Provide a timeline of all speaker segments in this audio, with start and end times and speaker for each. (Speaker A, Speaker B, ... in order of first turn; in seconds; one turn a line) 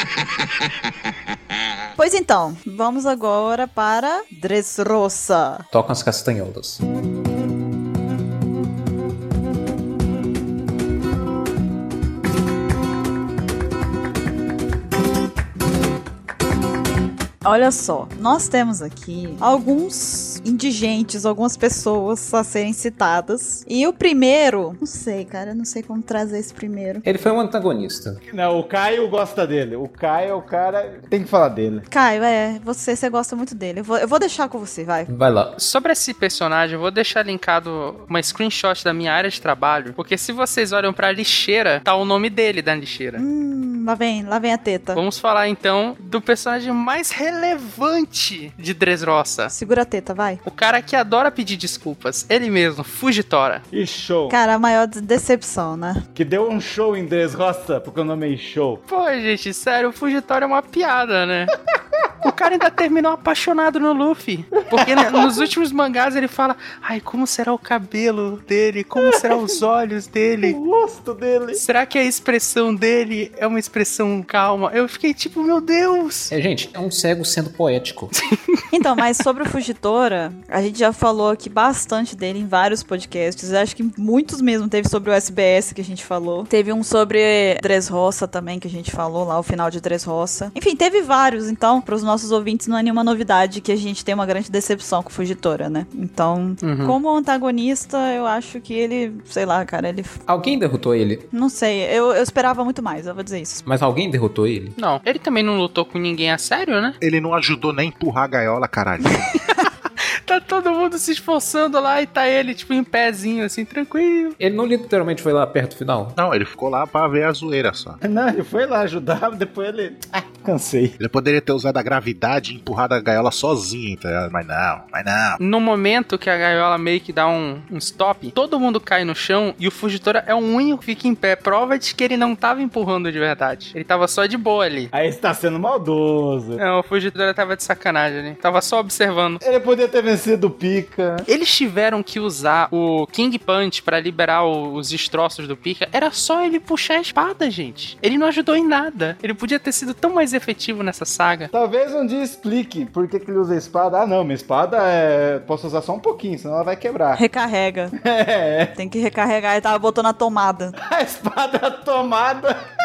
Speaker A: 2.0-5.7
Speaker B: 5.7-6.8
Speaker A: 17.4-27.0
Speaker B: 27.0-28.2
Speaker C: 28.3-31.9
Speaker A: 31.9-35.1
Speaker B: 35.1-35.6
Speaker D: 35.6-43.2
Speaker A: 43.1-45.0
Speaker D: 44.9-49.5
Speaker A: 49.5-50.4
Speaker D: 50.4-53.6
Speaker C: 53.7-54.4
Speaker A: 54.3-56.0
Speaker C: 56.1-58.8
Speaker D: 58.9-61.5
Speaker D: 62.2-70.6
Speaker C: 64.6-65.5
Speaker C: 69.0-69.6
Speaker C: 70.4-71.6
Speaker D: 71.5-76.3
Speaker B: 76.3-78.1
Speaker D: 78.1-78.5
Speaker A: 78.7-100.2
Speaker D: 96.6-97.0
Speaker B: 100.3-101.2
Speaker A: 101.3-103.6
Speaker B: 103.7-104.8
Speaker D: 104.8-107.0
Speaker E: 107.0-109.4
Speaker D: 110.2-114.4
Speaker B: 114.4-116.2
Speaker E: 116.2-118.0
Speaker C: 118.0-121.0
Speaker E: 121.0-125.4
Speaker D: 125.4-134.9
Speaker C: 134.9-136.6
Speaker D: 136.6-139.4
Speaker C: 139.4-141.3
Speaker D: 141.3-151.5
Speaker C: 151.5-157.2
Speaker A: 157.2-157.9
Speaker C: 158.0-158.7
Speaker A: 158.8-160.7
Speaker C: 160.8-162.6